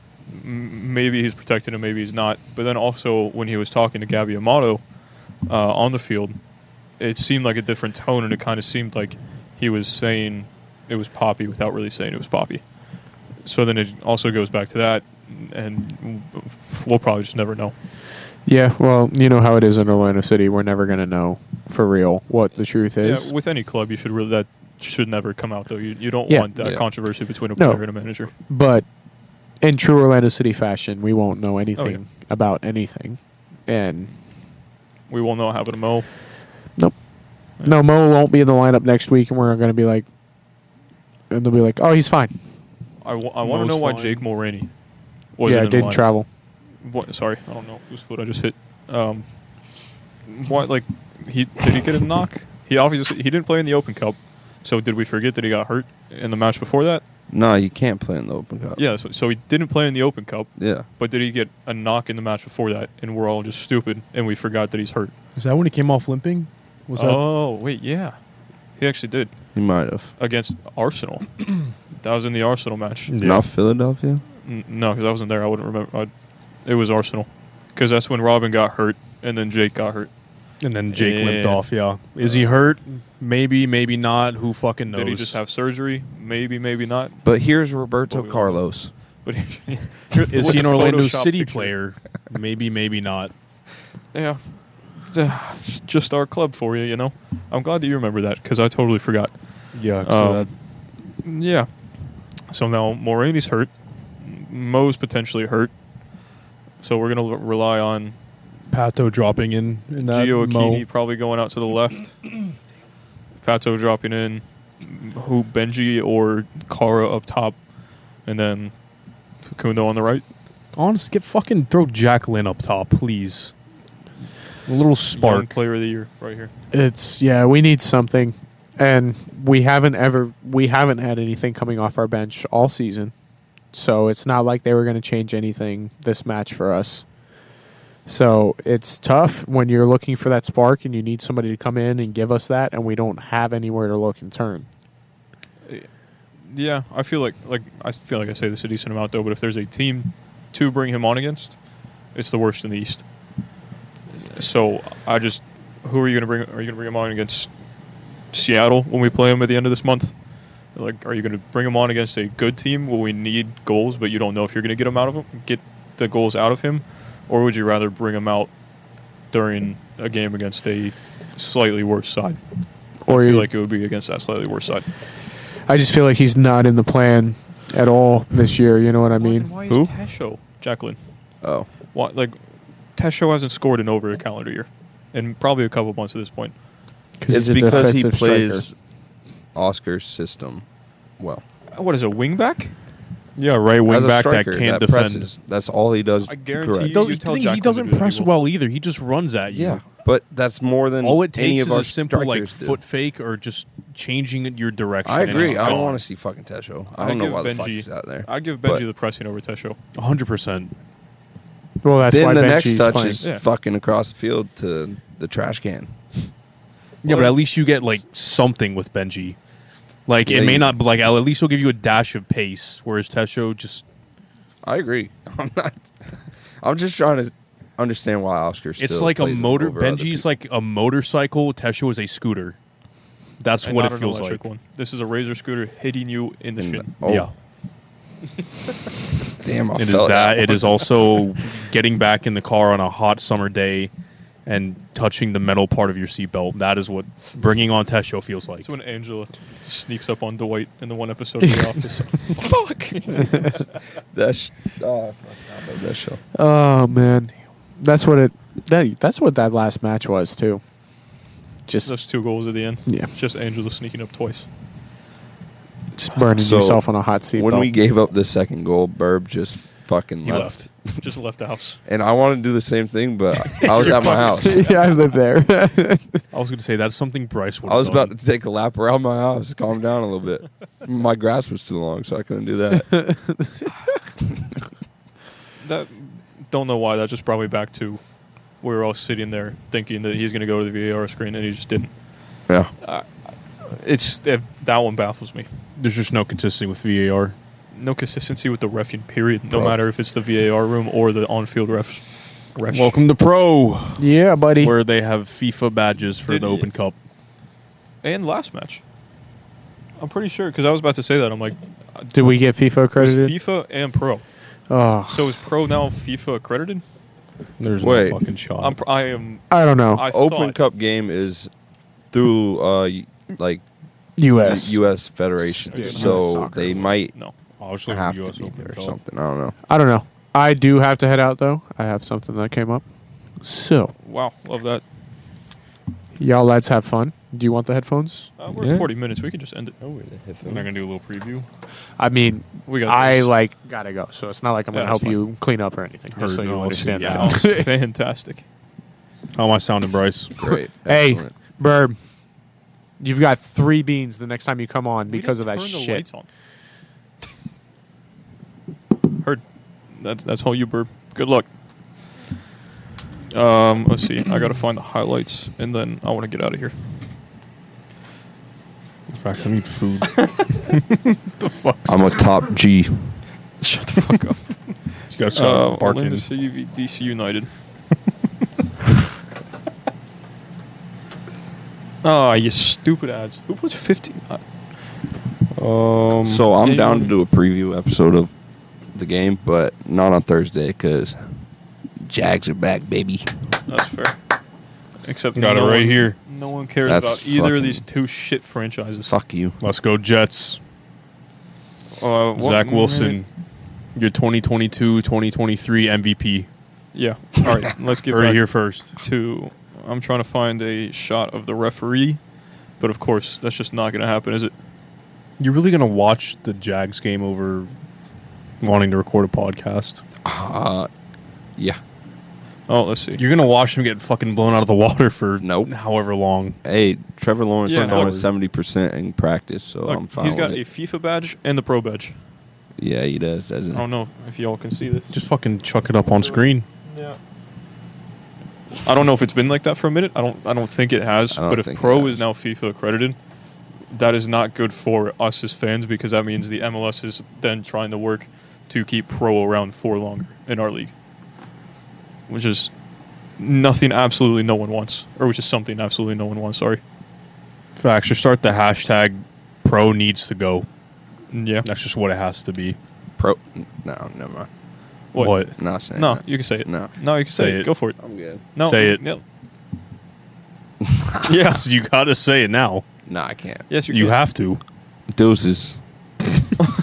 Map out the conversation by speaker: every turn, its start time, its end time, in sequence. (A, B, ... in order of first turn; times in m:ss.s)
0:00.3-0:04.8 A
0:05.4-0:06.4 A
0:07.0-0:12.6 A
0:13.4-0:17.7 A
0:18.4-0:23.3 B
0:23.0-0:28.3 A
0:26.6-0:26.8 C
0:27.6-0:28.8 B
0:29.6-0:34.1 B
0:31.8-0:32.0 A
0:35.1-0:36.1 A
0:37.6-0:40.0 B
0:41.3-0:42.3 B
0:43.0-0:44.7 A
0:43.4-0:44.2 D
0:45.4-0:46.0 A
0:45.4-0:46.3 B
0:46.8-0:49.3 A
0:50.3-0:57.0 A
0:57.3-0:58.8 C
0:58.8-1:05.1 A
1:00.6-1:00.9 C
1:05.4-1:07.2 D
1:06.9-1:08.2 A
1:08.8-1:09.3 A
1:09.5-1:10.1 C
1:10.2-1:13.1 A
1:13.1-1:13.4 D
1:13.2-1:14.2 C
1:14.4-1:16.1 A
1:16.6-1:20.1 A
1:20.6-1:25.4 D
1:20.9-1:21.6 A
1:24.9-1:27.2 A
1:27.2-1:28.9 C
1:28.1-1:28.6 A
1:29.2-1:31.7 A
1:30.3-1:33.3 D
1:34.1-1:39.4 A
1:39.7-1:40.5 D
1:40.0-1:40.5 A
1:41.1-1:41.7 A
1:42.5-1:45.7 A
1:46.8-1:48.2 A
1:48.7-1:50.8 D
1:49.9-1:52.2 A
1:53.4-1:57.6 A
1:58.2-1:58.7 A
1:59.4-2:00.2 A
2:00.7-2:03.5 D
2:04.6-2:05.5 D
2:05.1-2:06.5 A
2:06.7-2:13.1 B
2:13.7-2:17.0 B
2:18.0-2:24.6 B
2:26.4-2:31.6 A
2:32.1-2:33.0 A
2:34.2-2:37.5 A
2:38.3-2:40.1 A
2:40.7-2:48.5 A
2:49.3-2:52.4 A
2:53.0-2:53.5 B
2:53.1-2:54.9 A
2:55.7-2:59.5 B
2:59.2-3:01.0 A
3:01.4-3:01.7 C
3:01.9-3:02.4 A
3:02.9-3:06.5 A
3:07.2-3:08.6 B
3:07.3-3:08.7 C
3:09.5-3:10.6 C
3:11.2-3:11.4 C
3:11.7-3:12.7 A
3:13.4-3:15.2 D
3:13.8-3:17.0 C
3:16.2-3:18.3 A
3:16.8-3:19.8 D
3:19.5-3:22.8 C
3:21.0-3:26.0 D
3:25.0-3:28.8 C
3:25.3-3:25.8 A
3:26.9-3:29.8 A
3:29.9-3:30.7 D
3:31.8-3:33.2 B
3:32.1-3:36.0 C
3:37.0-3:39.4 D
3:37.0-3:37.3 A
3:40.0-3:43.8 D
3:40.2-3:40.7 C
3:44.6-3:50.2 C
3:48.8-3:52.6 D
3:53.4-3:54.4 D
3:53.6-3:56.9 A
3:56.6-3:57.3 C
3:57.0-3:57.3 D
3:59.3-4:01.1 C
3:59.7-4:03.9 D
4:04.4-4:08.7 D
4:08.6-4:13.6 A
4:12.4-4:16.2 C
4:16.3-4:20.6 B
4:21.8-4:24.5 A
4:26.0-4:27.7 B
4:26.3-4:31.0 C
4:30.2-4:30.6 D
4:30.9-4:31.8 A
4:31.8-4:34.7 C
4:33.4-4:34.9 A
4:33.6-4:36.2 B
4:36.3-4:38.1 D
4:37.6-4:43.0 C
4:42.9-4:43.2 B
4:45.6-4:48.0 A
4:48.6-4:52.0 A
4:52.8-4:55.5 A
4:55.8-4:57.3 D
4:57.7-5:02.9 A
4:59.5-4:59.8 C
5:02.7-5:07.0 D
5:04.0-5:04.7 B
5:06.3-5:06.7 A
5:08.0-5:08.8 A
5:10.0-5:12.1 A
5:12.1-5:13.3 B
5:13.0-5:14.2 A
5:14.7-5:15.3 B
5:15.1-5:16.8 A
5:17.6-5:18.8 D
5:17.8-5:18.2 C
5:18.6-5:20.6 A
5:19.5-5:20.0 B
5:20.0-5:21.5 C
5:22.1-5:23.6 C
5:24.2-5:24.8 B
5:24.4-5:27.1 C
5:25.4-5:26.9 B
5:25.6-5:26.4 A
5:27.6-5:29.0 D
5:27.9-5:29.6 C
5:29.7-5:32.8 B
5:33.4-5:33.9 B
5:34.0-5:34.8 A
5:36.2-5:38.3 B
5:38.4-5:39.8 A
5:38.6-5:38.9 C
5:39.8-5:40.7 C
5:40.4-5:41.5 D
5:42.0-5:47.7 B
5:42.6-5:43.3 A
5:44.7-5:45.2 A
5:46.2-5:47.6 D
5:47.1-5:48.4 A
5:49.4-5:50.5 D
5:50.4-5:51.3 C
5:50.8-5:52.0 B
5:53.0-5:56.0 B
5:55.0-5:56.3 A
5:59.1-6:01.5 A
6:03.3-6:06.7 A
6:09.1-6:12.3 D
6:11.8-6:13.2 C
6:13.6-6:14.7 A
6:15.1-6:16.3 D
6:15.3-6:17.5 A
6:22.0-6:24.4 A
6:25.6-6:26.5 D
6:26.2-6:28.3 C
6:26.6-6:27.1 A
6:28.9-6:31.4 C
6:32.0-6:33.3 C
6:33.7-6:34.2 A
6:35.0-6:39.1 A
6:35.3-6:36.2 D
6:36.8-6:37.8 C
6:39.1-6:39.6 C
6:39.6-6:40.6 D
6:42.0-6:43.2 A
6:42.4-6:43.3 D
6:43.9-6:46.5 D
6:46.9-6:52.2 A
6:48.1-6:48.9 D
6:52.8-6:54.5 A
6:55.4-6:57.7 D
6:58.6-7:00.0 D
7:00.2-7:00.9 C
7:02.7-7:03.2 A
7:03.2-7:06.6 D
7:05.4-7:05.7 C
7:06.6-7:10.6 C
7:07.6-7:08.2 A
7:07.7-7:08.3 D
7:09.8-7:12.2 A
7:12.8-7:13.8 C
7:13.7-7:15.2 A
7:15.1-7:16.6 D
7:16.2-7:17.2 A
7:18.8-7:23.2 A
7:21.3-7:22.2 C
7:23.9-7:30.9 A
7:32.3-7:32.7 A
7:33.4-7:36.8 A
7:37.8-7:40.7 D
7:41.3-7:41.6 A
7:41.6-7:42.8 D
7:43.2-7:44.5 C
7:45.1-7:48.0 A
7:45.2-7:45.5 D
7:45.6-7:46.9 C
7:47.3-7:47.7 D
7:48.0-7:48.4 C
7:48.5-7:49.2 A
7:48.6-7:49.0 D
7:50.8-7:51.2 C
7:51.2-7:51.6 A
7:51.5-7:52.8 D
7:53.1-7:53.7 C
7:53.7-7:54.2 A
7:53.9-7:54.6 D
7:55.1-7:55.8 C